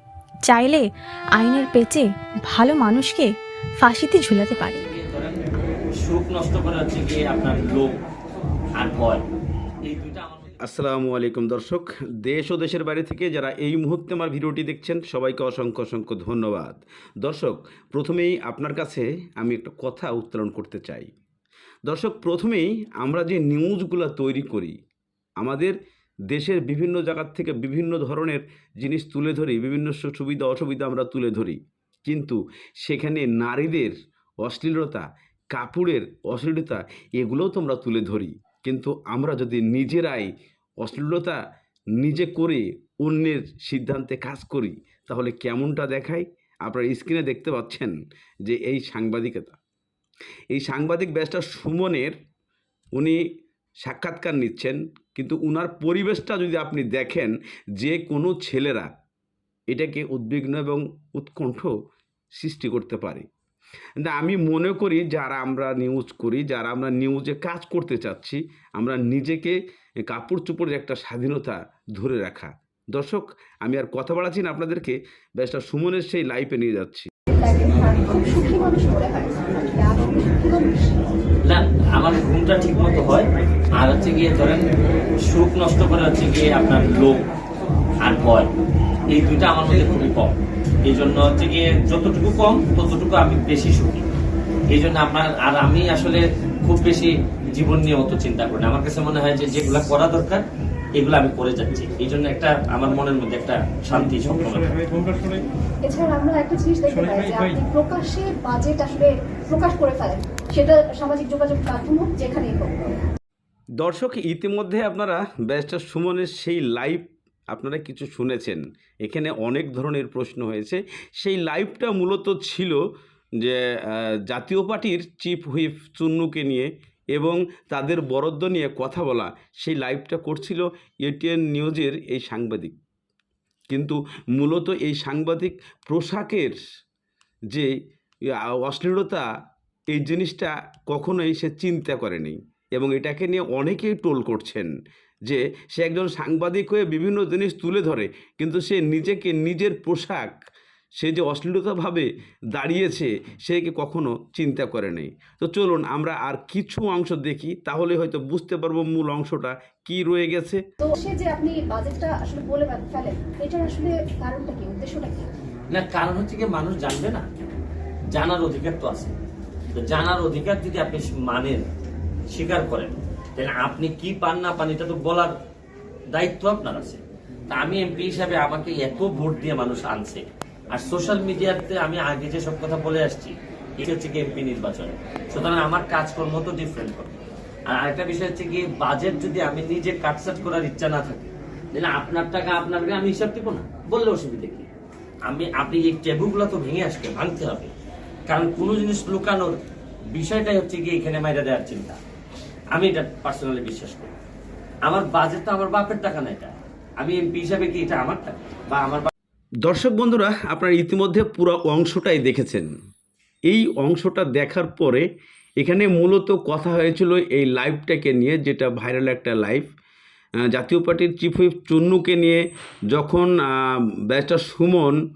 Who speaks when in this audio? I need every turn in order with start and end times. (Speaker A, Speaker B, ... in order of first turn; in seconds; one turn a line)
Speaker A: 0.5-0.8
Speaker A: 1.4-4.8
Speaker B: 4.6-5.4
Speaker B: 6.0-8.0
Speaker B: 8.8-9.2
Speaker B: 9.8-10.6
Speaker C: 10.6-21.1
Speaker C: 21.9-24.8
Speaker C: 25.4-25.8
Speaker C: 26.3-40.3
Speaker C: 40.8-41.4
Speaker C: 42.0-47.9
Speaker C: 48.5-49.6
Speaker C: 50.5-52.1
Speaker C: 53.8-58.9
Speaker C: 59.7-61.7
Speaker C: 62.4-63.3
Speaker C: 64.0-77.1
Speaker D: 77.3-81.0
Speaker B: 81.4-84.7
Speaker B: 85.2-87.2
Speaker B: 88.0-88.5
Speaker B: 89.1-90.3
Speaker B: 90.9-94.0
Speaker B: 94.7-100.4
Speaker B: 101.0-104.8
Speaker D: 105.8-112.8
Speaker C: 113.8-122.8
Speaker C: 123.4-132.8
Speaker C: 133.7-136.6
Speaker C: 138.3-139.2
Speaker C: 139.9-144.7
Speaker C: 145.2-150.3
Speaker C: 151.0-160.6
Speaker D: 160.8-165.3
Speaker B: 165.7-167.2
Speaker B: 168.1-169.1
Speaker B: 169.7-171.7
Speaker B: 172.3-175.3
Speaker B: 176.1-194.7
Speaker B: 195.3-197.7
Speaker B: 198.3-199.6
Speaker B: 200.1-202.0
Speaker B: 202.7-204.1
Speaker B: 204.8-209.1
Speaker C: 209.6-212.7
Speaker C: 213.5-215.1
Speaker C: 215.6-219.7
Speaker C: 220.5-225.0